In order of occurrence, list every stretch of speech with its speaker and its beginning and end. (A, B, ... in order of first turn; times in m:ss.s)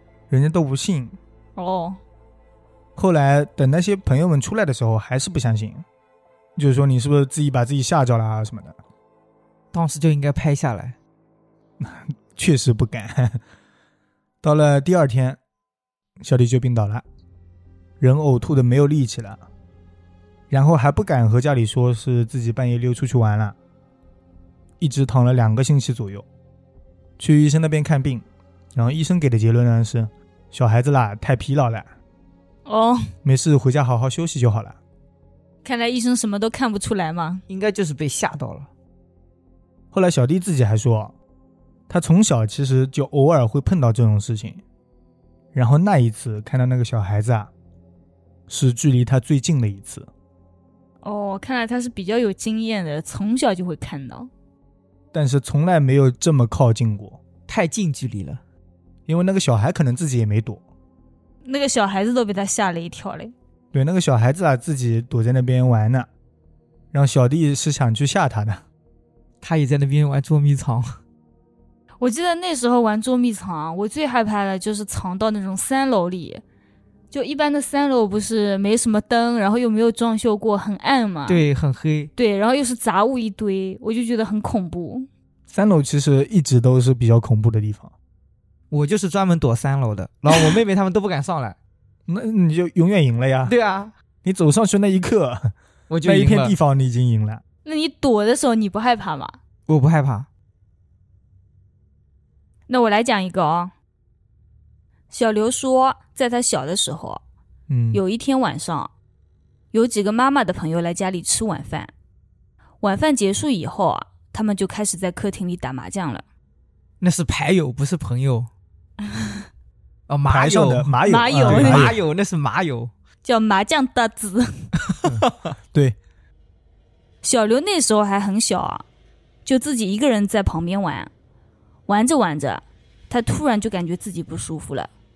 0:00.3-0:01.2 A
0:01.6-0:02.0 B
0:03.0-0:05.8 A
0:06.6-0:08.8 A
0:09.7-0:11.0 C
0:11.8-0:13.4 A
0:14.4-0:15.4 A
0:16.2-0:17.0 A
0:18.0-0:19.4 A
0:20.5-0:23.6 A
0:24.8-0:26.2 A
0:27.2-0:31.9 A
0:32.6-0:33.0 B
0:33.2-0:34.8 A
0:35.6-0:37.4 B
0:37.5-0:38.7 C
0:39.9-0:41.1 A
0:41.9-0:44.6 A
0:45.5-0:47.5 A
0:48.5-0:50.1 A
0:51.0-0:54.3 B
0:55.1-0:57.2 A
0:57.5-0:58.4 C
0:59.1-1:00.6 A
1:01.4-1:03.3 B
1:03.7-1:06.1 A
1:06.9-1:08.6 A
1:09.4-1:11.0 C
1:12.0-1:16.4 B
1:17.1-1:21.4 B
1:21.3-1:22.1 C
1:22.2-1:25.1 B
1:25.5-1:27.9 A
1:28.7-1:31.6 C
1:32.1-1:33.5 A
1:33.5-1:33.9 C
1:34.2-1:35.5 A
1:35.9-1:36.5 C
1:36.0-1:37.4 A
1:37.6-1:39.4 B
1:39.7-1:40.3 C
1:42.7-1:43.7 B
1:45.1-1:47.2 B
1:47.7-1:48.0 A
1:47.9-1:48.9 B
1:49.7-1:51.9 B
1:52.8-1:56.2 B
1:57.0-1:58.5 C
2:00.1-2:02.9 C
2:00.3-2:02.0 A
2:01.0-2:01.9 B
2:03.2-2:04.7 B
2:04.9-2:05.3 C
2:05.0-2:06.0 A
2:07.2-2:08.8 B
2:09.4-2:11.1 B
2:11.9-2:14.9 B